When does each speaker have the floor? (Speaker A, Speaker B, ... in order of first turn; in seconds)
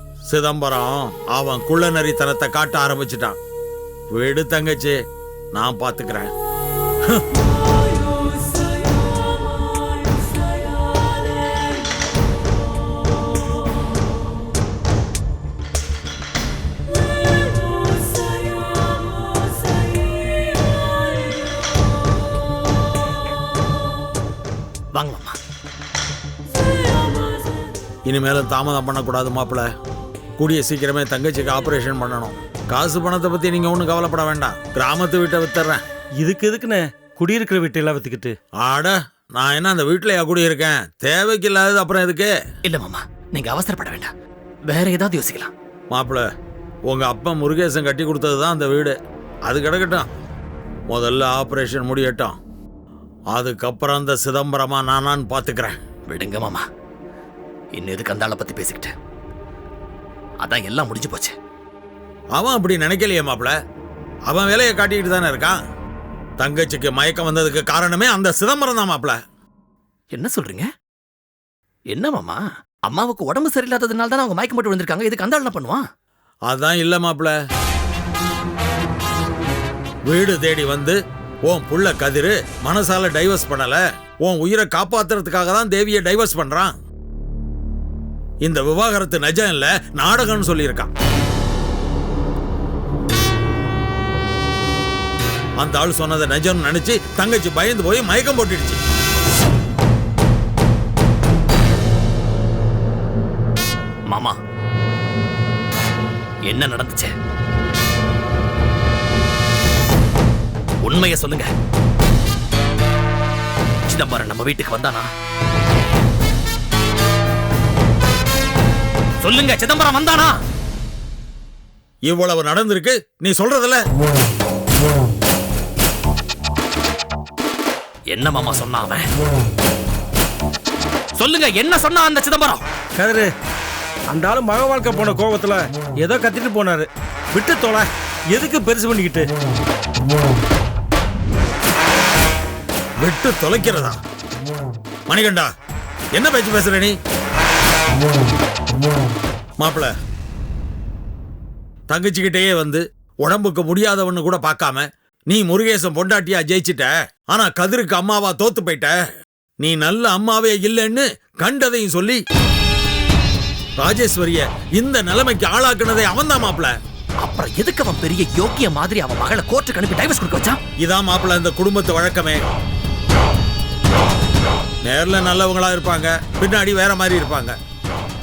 Speaker A: 0.3-3.4, 4.1-5.0, 5.5-6.3, 28.1-29.7, 30.4-35.8, 38.6-42.3, 45.9-46.2, 46.9-49.0, 49.5-50.1, 50.9-52.3, 53.3-55.7, 62.4-63.5, 64.3-65.5, 66.4-69.2, 76.5-77.3, 80.1-86.7, 88.4-90.9, 95.6-98.8, 122.0-123.8, 143.0-144.0, 145.1-145.5, 146.1-146.9, 149.6-149.9, 151.9-158.9, 159.6-162.2, 163.8-166.7, 170.8-172.4, 174.8-177.5
Speaker B: 24.9-25.4, 42.6-44.1, 44.7-45.5, 56.1-56.6, 57.7-58.9, 60.4-61.3, 70.1-70.6, 71.9-75.8, 104.1-104.3, 106.5-107.1, 110.8-111.5, 113.9-115.1, 119.2-120.4, 128.1-129.1, 131.2-132.6, 167.2-170.6
Speaker C: 36.2-38.4, 132.9-133.3, 134.1-139.3